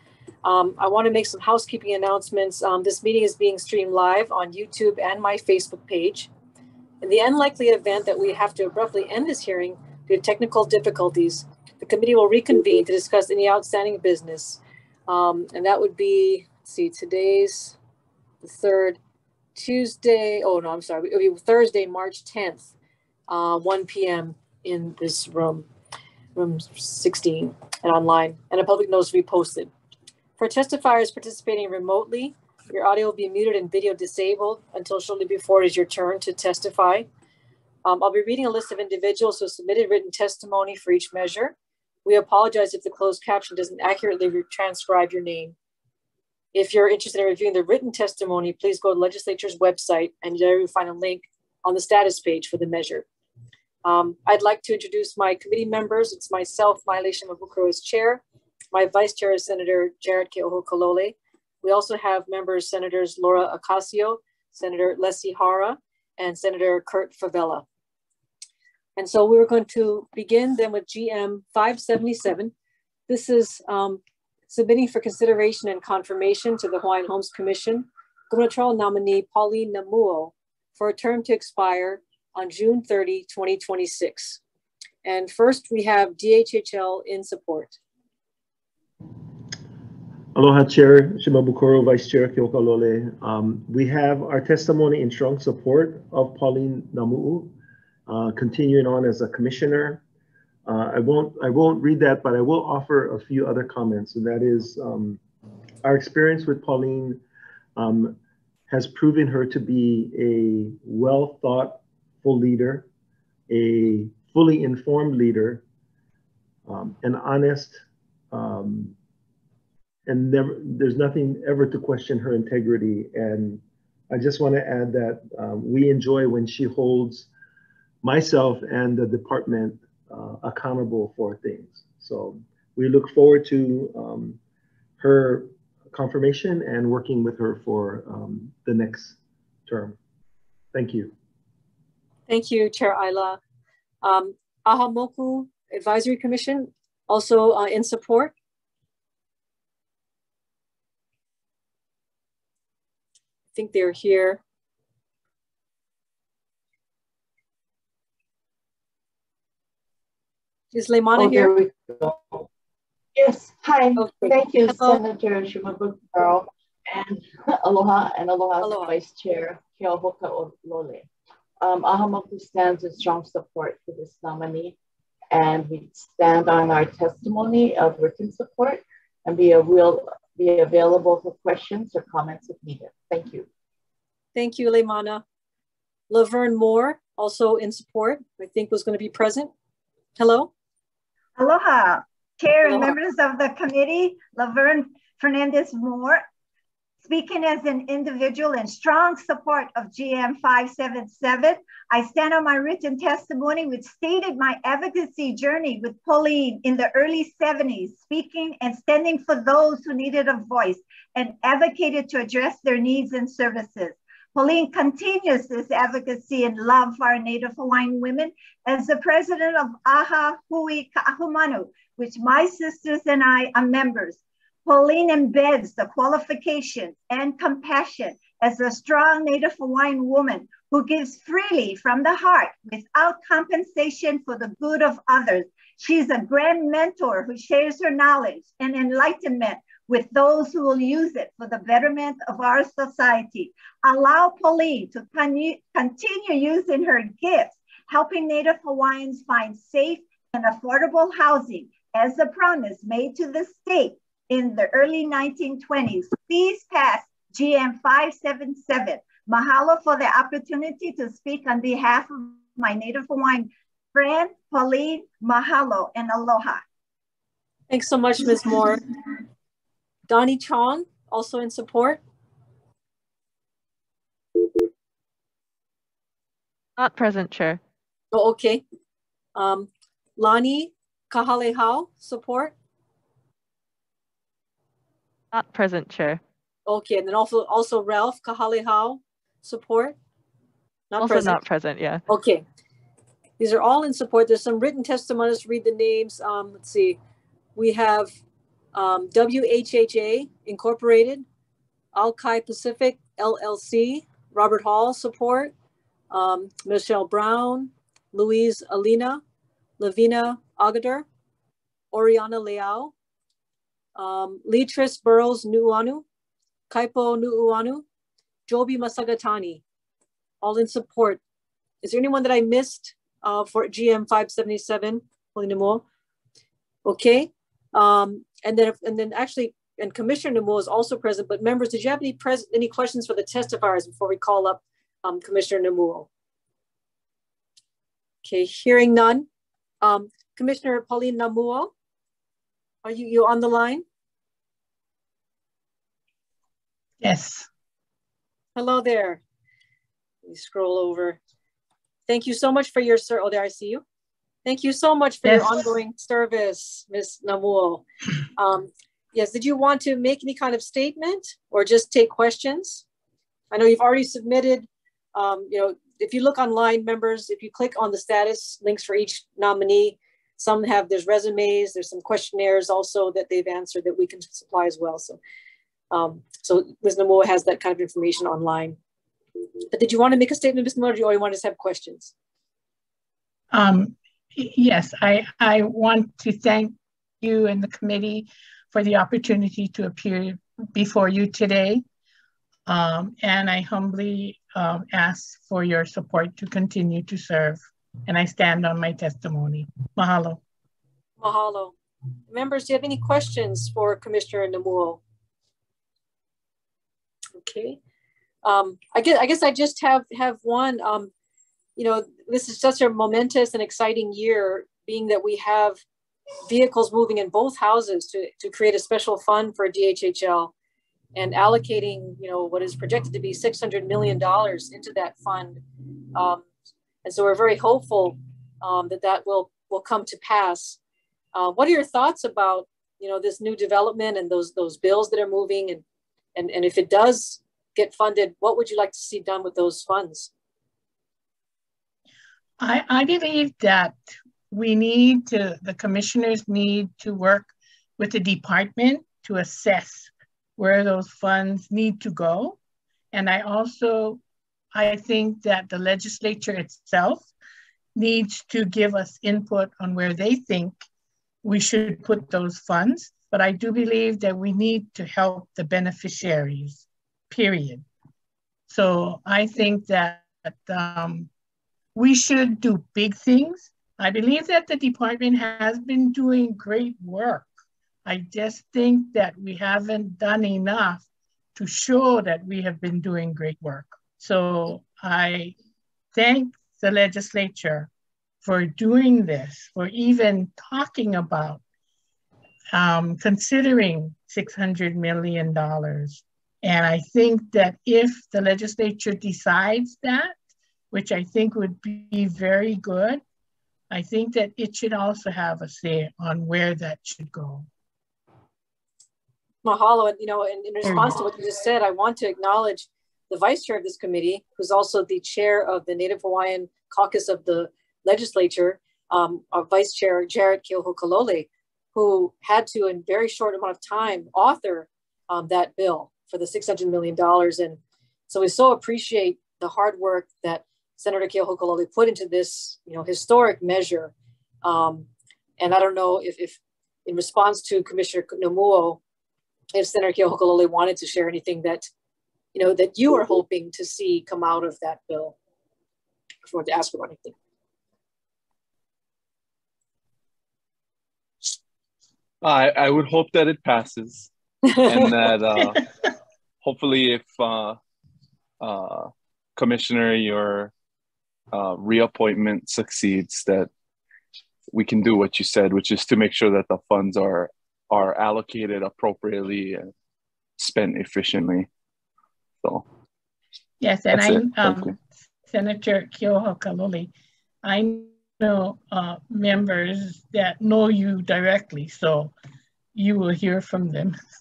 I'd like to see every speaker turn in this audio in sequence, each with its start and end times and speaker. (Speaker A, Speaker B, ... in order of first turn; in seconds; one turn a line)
Speaker A: 0.4-6.3
Speaker A: 7.0-17.8
Speaker A: 18.4-19.0
Speaker A: 19.5-22.7
Speaker A: 23.3-25.7
Speaker A: 26.3-29.7
Speaker A: 30.4-37.1
Speaker A: 37.8-41.5
Speaker A: 42.0-45.5
Speaker A: 46.5-53.0
Speaker A: 53.8-67.6
Speaker A: 69.0-72.5
Speaker A: 73.1-84.4
Speaker A: 85.0-87.8
Speaker B: 90.3-97.5
Speaker B: 98.1-100.0
Speaker B: 100.7-105.2
Speaker B: 105.8-107.2
Speaker B: 107.8-108.2
Speaker B: 108.7-112.9
Speaker B: 113.5-115.6
Speaker B: 116.7-118.9
Speaker B: 120.1-127.3
Speaker B: 128.0-134.4
Speaker B: 135.0-140.0
Speaker B: 140.7-141.1
Speaker A: 142.3-143.4
Speaker A: 144.0-148.3
Speaker A: 153.5-154.4
Speaker A: 160.7-161.5
Speaker C: 161.2-162.4
Speaker C: 163.2-171.1
Speaker A: 163.9-165.0
Speaker A: 168.6-168.9
Speaker C: 171.6-174.8
Speaker C: 175.3-183.4
Speaker A: 184.3-185.2
Speaker A: 186.1-189.5
Speaker A: 190.2-190.5
Speaker D: 191.3-196.2
Speaker A: 192.6-192.9
Speaker D: 197.0-266.6
Speaker A: 267.7-268.8
Speaker A: 270.1-272.0
Speaker E: 276.8-277.6
Speaker A: 278.1-278.6
Speaker A: 279.3-282.5
Speaker E: 285.3-286.2
Speaker A: 286.7-289.9
Speaker A: 290.9-291.4
Speaker E: 291.0-292.0
Speaker A: 292.1-292.4
Speaker A: 293.4-297.0
Speaker A: 297.6-298.1
Speaker A: 298.7-301.2
Speaker A: 301.9-305.5
Speaker A: 306.1-309.2
Speaker A: 309.8-311.1
Speaker A: 311.9-312.9
Speaker A: 313.9-316.0
Speaker A: 316.7-317.8
Speaker A: 318.5-319.6
Speaker A: 320.4-321.2
Speaker A: 321.8-325.8
Speaker A: 326.8-336.1
Speaker A: 338.2-339.3
Speaker A: 339.8-341.7
Speaker A: 342.8-343.8
Speaker F: 347.0-347.5
Speaker A: 348.6-349.2
Speaker A: 350.2-351.2
Speaker A: 352.1-353.8
Speaker A: 354.4-362.8
Speaker F: 355.2-355.6
Speaker A: 363.5-375.2
Speaker A: 375.9-378.8
Speaker A: 379.7-382.1
Speaker F: 383.5-391.8
Speaker F: 392.7-400.4
Speaker A: 401.2-401.7
Speaker A: 402.3-405.0
Speaker A: 407.4-407.8
Speaker A: 408.4-411.1
Speaker A: 411.8-415.8
Speaker A: 416.4-420.5
Speaker A: 421.1-425.6
Speaker A: 426.1-426.4
Speaker A: 427.0-430.8
Speaker A: 431.3-435.8
Speaker A: 436.4-440.3
Speaker F: 442.6-452.6
Speaker F: 453.1-454.2
Speaker F: 454.7-457.3
Speaker F: 457.9-460.8
Speaker F: 461.4-467.9
Speaker F: 468.7-471.3
Speaker F: 471.9-477.5
Speaker F: 478.0-485.5
Speaker F: 486.1-487.9
Speaker F: 488.4-491.6
Speaker F: 492.7-500.3
Speaker F: 500.9-503.2
Speaker F: 503.9-507.7
Speaker A: 509.6-535.1
Speaker F: 510.8-511.2
Speaker A: 535.6-539.0
Speaker A: 539.7-541.9
Speaker A: 542.5-545.4
Speaker A: 546.4-547.3
Speaker G: 552.4-554.3
Speaker G: 554.8-555.8
Speaker G: 556.6-557.8
Speaker G: 558.6-560.7
Speaker G: 561.5-563.7
Speaker G: 564.7-569.9
Speaker G: 570.6-571.7
Speaker F: 573.8-577.1
Speaker G: 574.1-574.9
Speaker F: 577.6-582.3
Speaker F: 582.9-584.2